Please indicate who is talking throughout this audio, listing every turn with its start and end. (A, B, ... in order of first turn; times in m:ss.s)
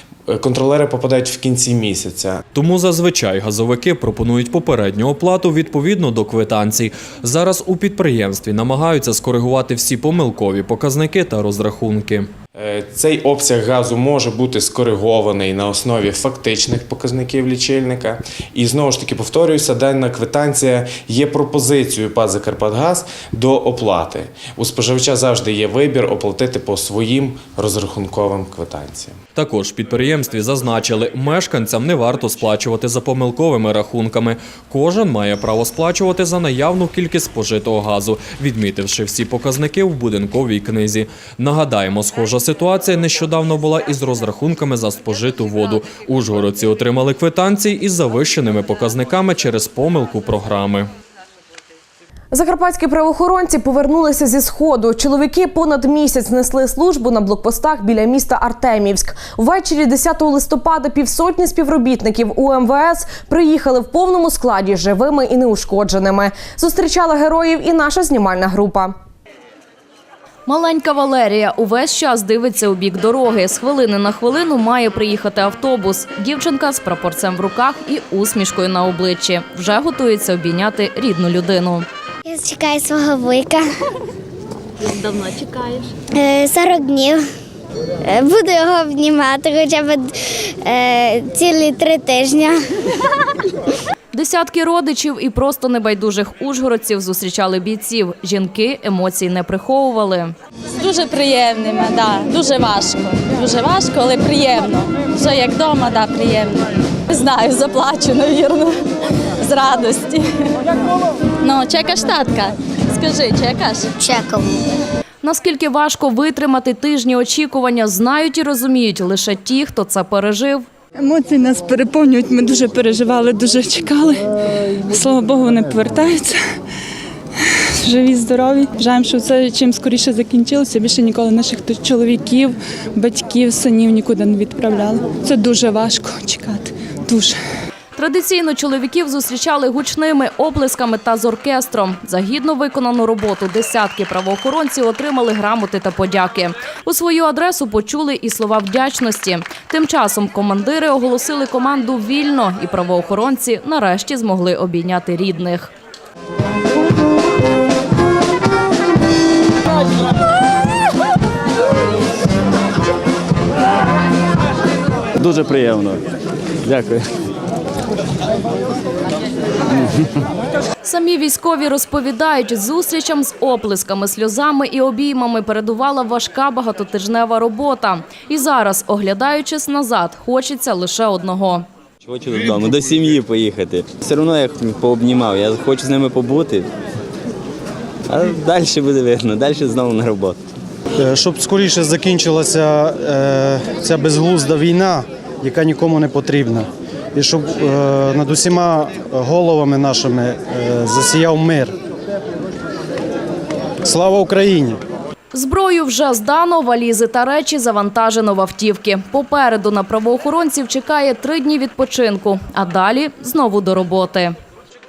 0:00.3-0:02.4 A
0:02.5-0:12.3 B
0:12.6-0:29.2 A
0:29.3-0:50.9 B
0:52.3-1:08.9 C
1:10.5-1:21.9 D
1:22.2-1:23.7 E
1:26.1-1:27.2 E
1:28.0-1:32.6 E
1:34.1-1:40.3 D
1:40.8-1:48.7 F
1:49.4-1:50.5 F
1:51.4-1:53.9 F
1:54.0-1:54.5 E
1:55.2-2:00.7 D
2:01.0-2:04.3 G
2:04.9-2:06.4 G
2:07.8-2:17.4 G
2:18.0-2:35.7 D
2:50.8-3:01.7 D
3:02.0-3:06.7 H
3:08.1-3:10.4 H
3:11.2-3:12.5 I
3:13.1-3:15.6 I
3:18.1-3:18.4 I
3:20.8-3:21.6 I
3:24.0-3:24.8 I
3:25.3-3:34.3 D